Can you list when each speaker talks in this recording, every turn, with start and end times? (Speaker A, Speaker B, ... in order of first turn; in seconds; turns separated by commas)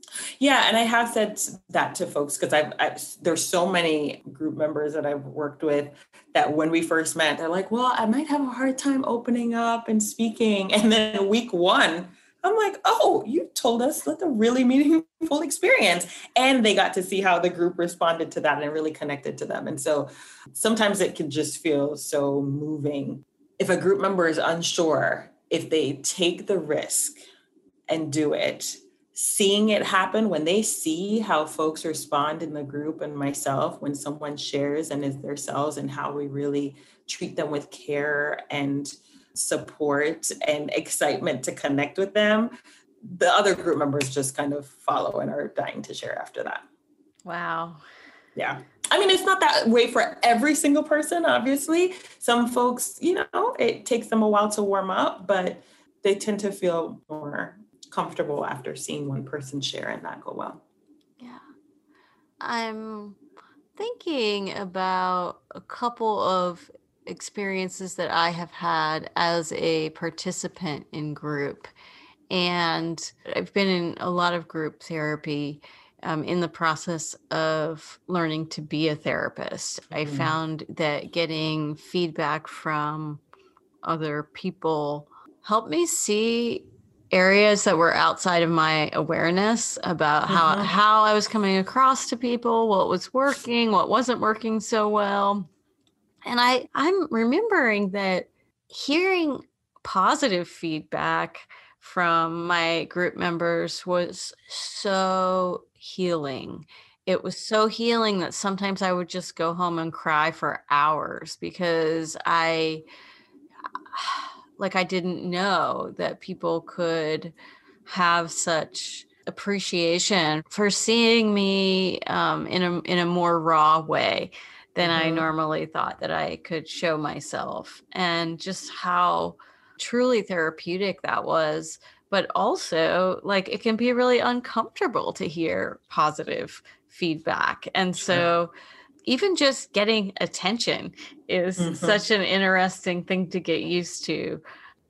Speaker A: 0.4-27.2, Speaker A: 27.9-46.6, Speaker B: 47.2-47.8, Speaker A: 48.3-60.6, Speaker B: 62.4-63.2, Speaker B: 63.8-71.7, Speaker B: 72.3-83.2, Speaker A: 79.9-80.3, Speaker B: 83.8-95.5, Speaker A: 90.3-90.7, Speaker B: 96.2-112.8, Speaker B: 113.9-117.3, Speaker B: 117.8-138.5, Speaker A: 124.8-125.3, Speaker A: 138.0-138.3, Speaker B: 139.1-144.4, Speaker A: 141.6-142.0